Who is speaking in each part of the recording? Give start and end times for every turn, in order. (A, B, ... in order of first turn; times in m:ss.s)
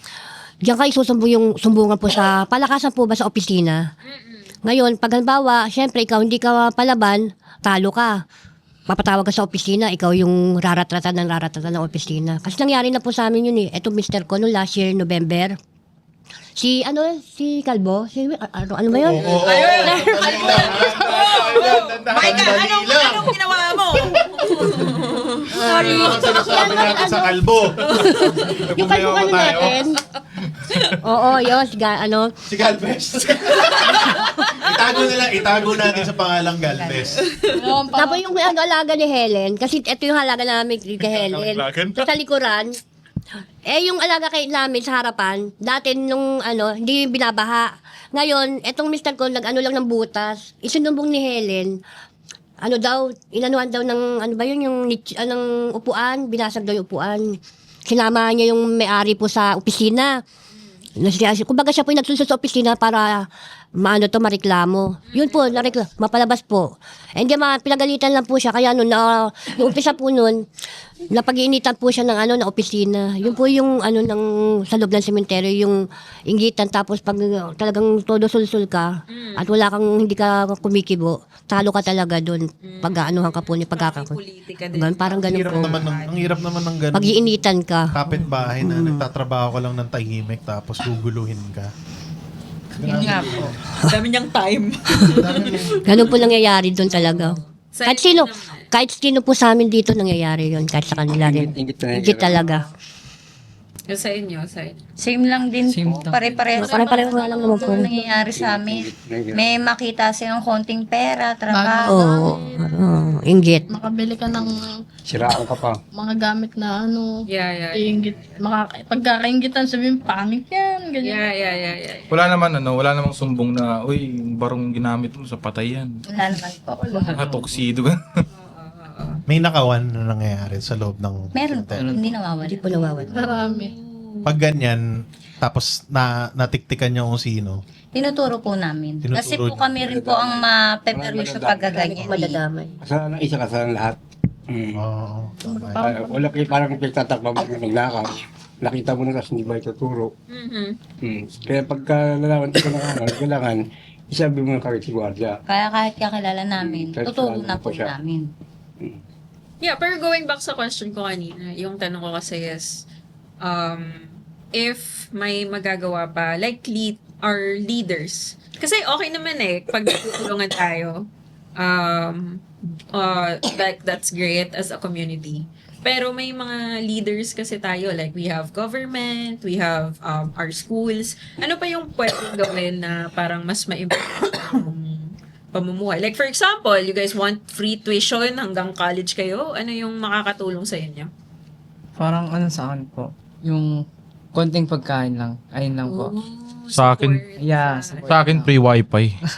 0:00.6-0:03.8 A
0:04.0-0:04.5 B
0:04.6-0:08.1 A
0:08.9-0:15.5 A
0:16.6-0:20.7 A
0:18.9-0:23.4 C
0:19.2-0:27.3 B
0:20.7-0:22.5 D
0:25.5-0:27.3 A
0:25.6-0:28.0 C
0:27.9-0:29.8 D
0:27.9-0:30.0 A
0:30.4-0:30.9 D
0:31.0-0:32.3 A
0:32.5-0:37.2 C
0:33.5-0:35.0 B
0:36.6-0:37.5 E
0:37.4-0:38.4 F
0:37.9-0:42.7 A
0:41.0-0:42.0 D
0:43.6-0:51.7 A
0:52.6-0:57.3 A
0:57.9-1:00.1 A
1:01.0-1:03.2 A
1:03.8-1:10.4 A
1:05.1-1:05.7 B
1:11.1-1:15.8 A
1:13.2-1:13.5 B
1:16.3-1:24.2 A
1:19.1-1:19.5 B
1:22.6-1:26.3 B
1:24.7-1:25.8 A
1:25.3-1:27.2 C
1:26.9-1:29.0 A
1:27.9-1:31.7 C
1:32.8-1:33.6 C
1:32.8-1:33.5 G
1:33.0-1:33.5 H
1:33.8-1:36.3 B
1:35.0-1:35.8 C
1:35.8-1:42.6 A
1:36.8-1:38.6 B
1:40.9-1:42.6 G
1:43.9-1:44.9 B
1:45.0-1:48.8 E
1:45.6-1:46.6 H
1:46.6-1:47.9 A
1:46.6-1:48.2 F
1:48.2-1:49.6 G
1:49.4-1:52.0 E
1:51.5-1:52.8 F
1:51.9-1:53.6 A
1:52.9-1:53.8 B
1:53.7-1:54.8 F
1:55.1-1:55.8 G
1:55.9-1:57.1 F
1:57.3-1:58.4 B
1:57.7-2:01.7 F
2:01.0-2:02.1 B
2:02.1-2:05.9 D
2:06.1-2:07.2 E
2:07.0-2:07.4 H
2:07.1-2:08.0 D
2:08.3-2:09.2 B
2:09.3-2:11.9 C
2:11.3-2:13.5 E
2:11.8-2:12.1 H
2:12.4-2:13.4 A
2:13.1-2:13.7 F
2:13.4-2:14.2 B
2:14.2-2:14.8 C
2:15.4-2:17.6 C
2:17.9-2:22.4 E
2:19.0-2:19.8 C
2:19.8-2:21.8 G
2:21.7-2:22.8 A
2:22.8-2:24.0 G
2:24.5-2:24.8 G
2:24.8-2:25.9 C
2:25.7-2:30.1 G
2:25.8-2:26.4 F
2:30.3-2:30.8 B
2:31.0-2:35.4 G
2:35.5-2:38.2 E
2:36.6-2:37.9 G
2:39.6-2:42.8 B
2:43.4-2:51.0 B
2:51.6-2:52.4 B
2:52.9-3:11.1 B
3:12.0-3:13.7 H
3:14.3-3:16.1 H
3:15.8-3:18.1 B
3:16.7-3:17.2 D
3:17.4-3:18.5 H
3:18.0-3:19.2 D